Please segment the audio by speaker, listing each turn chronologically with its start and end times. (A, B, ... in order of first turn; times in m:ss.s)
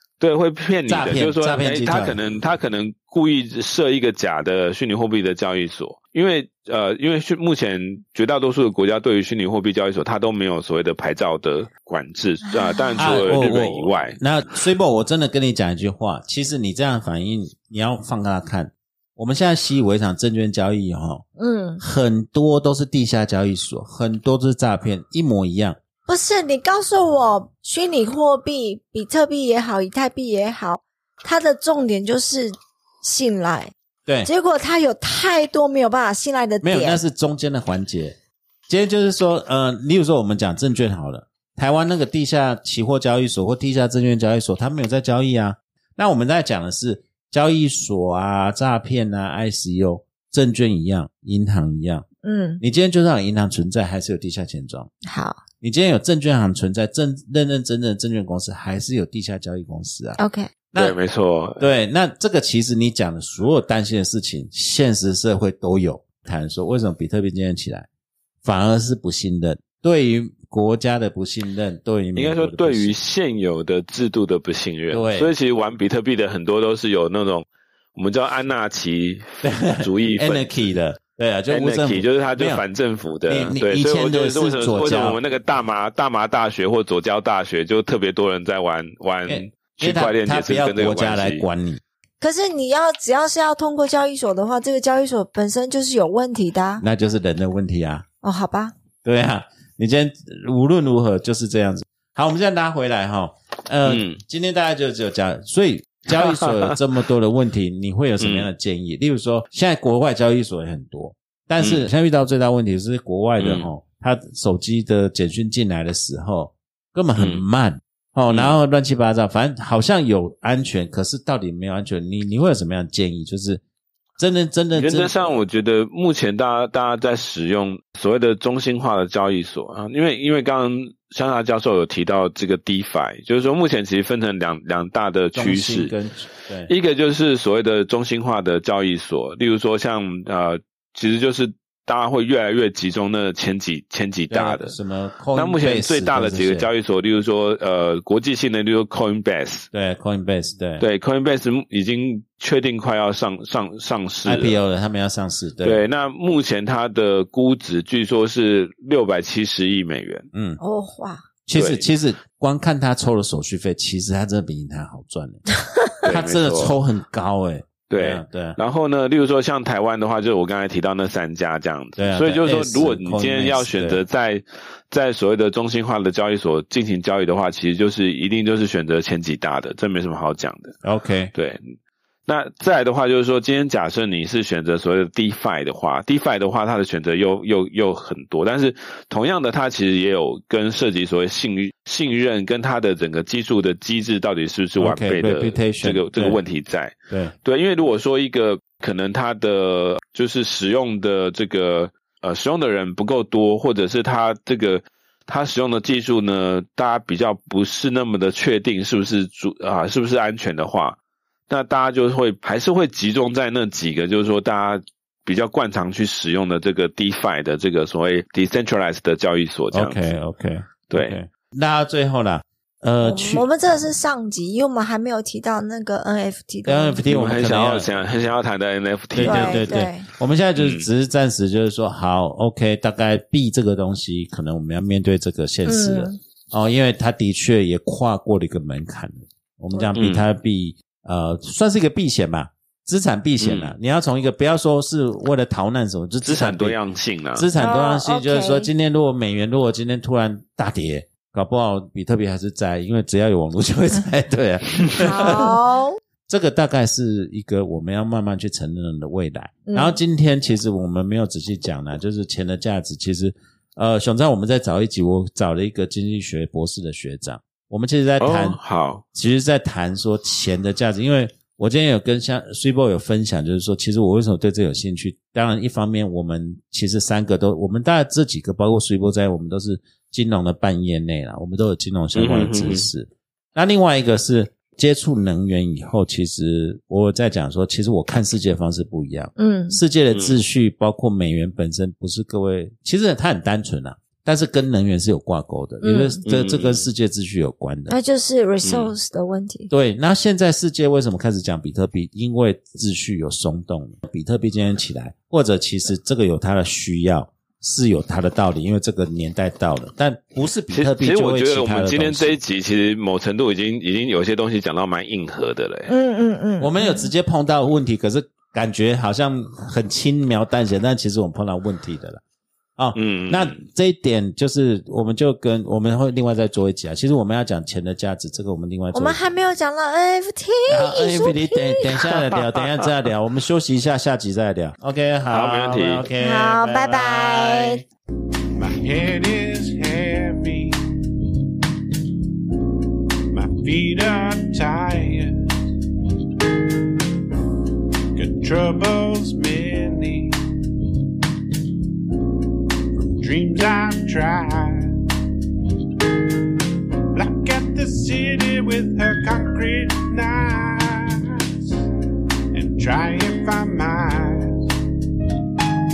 0:00.2-0:14.2 A
0:00.9-0:02.2 B
0:12.5-0:13.1 C
0:13.0-0:21.2 B
0:21.4-0:21.8 C
0:21.8-0:25.8 B
0:26.1-0:33.7 C
0:34.2-0:37.0 C
0:36.6-0:38.2 B
0:38.7-0:52.0 B
0:52.2-0:52.6 C
0:52.6-0:54.9 B
0:55.0-0:55.4 C
0:55.6-1:00.2 B
1:00.2-1:00.5 C
1:00.8-1:01.6 A
1:01.6-1:07.9 B
1:08.4-1:12.9 B
1:12.1-1:20.7 A
1:14.9-1:15.3 B
1:19.4-1:22.6 B
1:21.5-1:31.4 A
1:23.3-1:25.2 B
1:29.3-1:31.8 B
1:32.2-1:36.8 C
1:36.8-1:38.0 B
1:38.2-1:38.7 C
1:39.0-2:03.6 B
1:43.8-1:44.2 A
1:46.1-1:46.8 A
1:48.2-1:48.5 A
1:51.6-1:51.9 A
1:53.4-1:53.7 A
1:57.2-1:57.4 A
2:04.2-2:05.1 B
2:04.7-2:15.9 A
2:15.3-2:16.7 B
2:16.7-2:24.7 A
2:24.3-2:26.7 B
2:25.3-2:29.7 A
2:29.7-2:30.8 B
2:30.8-2:34.6 A
2:34.2-2:35.8 B
2:35.6-2:40.3 A
2:40.3-2:40.6 B
2:40.6-2:41.2 C
2:41.4-2:45.4 B
2:41.6-2:41.8 A
2:46.0-2:48.6 B
2:46.0-2:46.8 A
2:47.9-3:00.8 A
2:52.0-2:54.0 B
3:00.8-3:01.3 B
3:01.3-3:01.7 A
3:02.3-3:31.0 A
3:14.8-3:16.4 B
3:31.5-3:40.0 A
3:39.7-3:43.5 B
3:40.9-3:41.2 A
3:43.0-3:47.0 C
3:46.6-3:47.9 B
3:47.1-3:49.7 A
3:49.1-4:06.8 B
3:49.2-3:50.1 C
3:50.6-3:50.9 A
3:55.7-3:56.2 C
4:00.0-4:00.2 A
4:03.4-4:03.7 A
4:06.2-4:07.5 A
4:07.4-4:15.6 B
4:07.5-4:08.7 C
4:15.0-4:16.0 C
4:16.3-4:28.6 B
4:19.7-4:20.0 C
4:28.2-4:29.0 A
4:29.1-4:58.0 B
4:42.1-4:42.9 A
4:49.4-4:49.8 C
4:50.1-4:50.4 A
4:55.8-4:56.2 C
4:56.3-4:56.9 A
4:57.9-4:59.7 C
4:58.6-4:58.9 A
4:59.7-5:12.3 B
5:10.7-5:15.9 A
5:15.9-5:17.1 C
5:16.6-5:22.2 B
5:22.8-5:29.2 B
5:22.9-5:23.6 A
5:28.9-5:31.8 C
5:30.7-5:37.8 B
5:35.3-5:36.1 A
5:36.2-5:37.8 C
5:38.6-5:41.3 D
5:43.3-5:45.4 D
5:48.2-5:50.4 D
5:52.9-5:54.9 D
5:57.1-6:01.7 D
6:02.5-6:04.6 D